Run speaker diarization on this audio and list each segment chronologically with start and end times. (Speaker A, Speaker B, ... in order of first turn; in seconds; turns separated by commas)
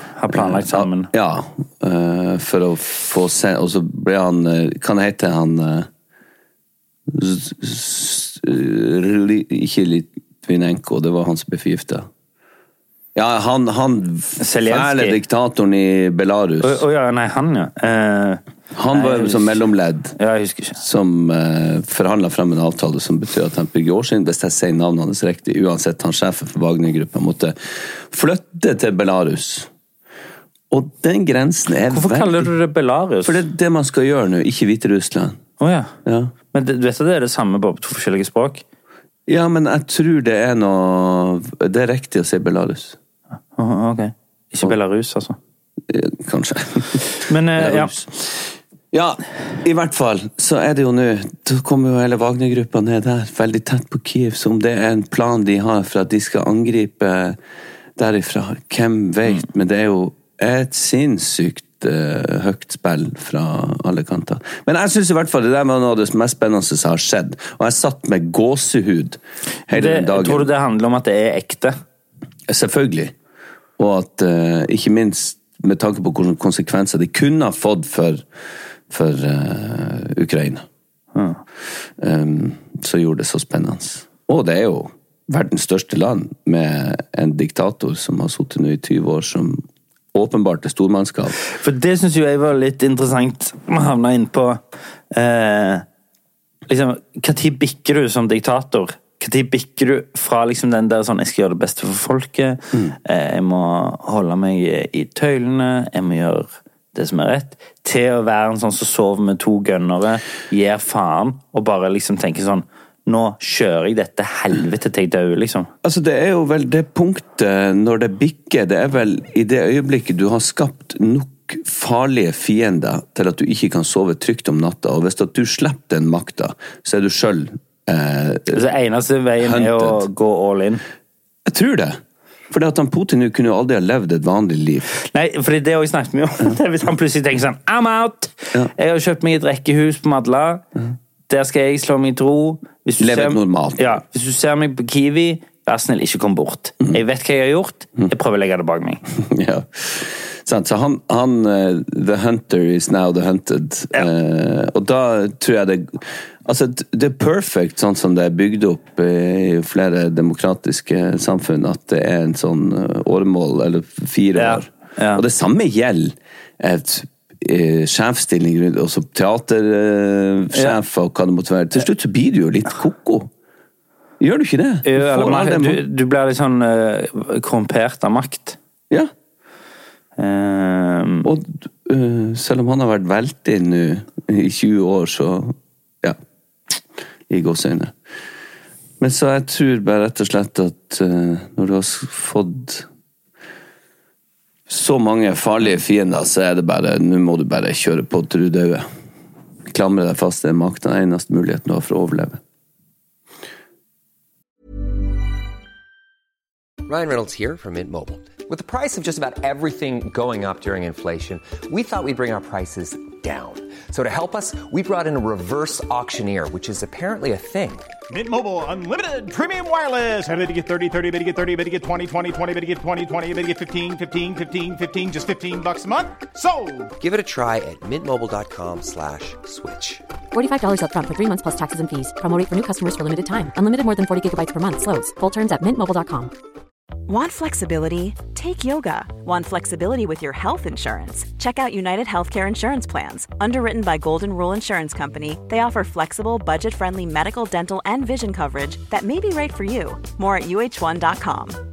Speaker A: 0.1-1.1, Speaker B: 0.3-5.9, Speaker B: 7.1-12.1, Speaker B: 13.1-16.8, Speaker A: 14.4-15.2, Speaker A: 16.6-19.6, Speaker B: 18.7-20.1, Speaker A: 20.1-20.8, Speaker B: 20.8-29.7, Speaker B: 30.7-32.5, Speaker A: 31.9-33.4, Speaker B: 33.2-35.4, Speaker A: 35.6-35.9, Speaker B: 36.0-36.3, Speaker A: 36.5-38.6, Speaker B: 39.3-43.0, Speaker A: 43.5-45.4, Speaker B: 45.9-57.4, Speaker A: 47.1-48.0, Speaker B: 58.0-70.5, Speaker A: 69.7-71.8, Speaker B: 72.5-73.1, Speaker B: 73.8-78.2, Speaker B: 78.9-80.7, Speaker A: 81.1-81.4, Speaker B: 82.0-89.6, Speaker B: 90.1-91.4, Speaker A: 91.4-95.8, Speaker A: 96.7-115.7, Speaker B: 115.8-128.7, Speaker A: 128.5-130.8, Speaker B: 129.4-130.0, Speaker B: 131.4-134.9, Speaker A: 135.0-140.6, Speaker A: 141.3-149.0, Speaker B: 143.0-144.0, Speaker B: 149.2-173.3, Speaker A: 164.3-165.2, Speaker B: 174.2-175.8, Speaker A: 174.8-178.6, Speaker A: 180.2-181.3, Speaker B: 181.2-186.2, Speaker B: 187.3-187.9, Speaker B: 189.0-192.9, Speaker B: 194.7-198.8, Speaker B: 199.7-202.4, Speaker C: 206.8-217.9, Speaker D: 218.1-226.9, Speaker C: 227.0-230.0, Speaker E: 230.3-236.3, Speaker F: 237.1-251.6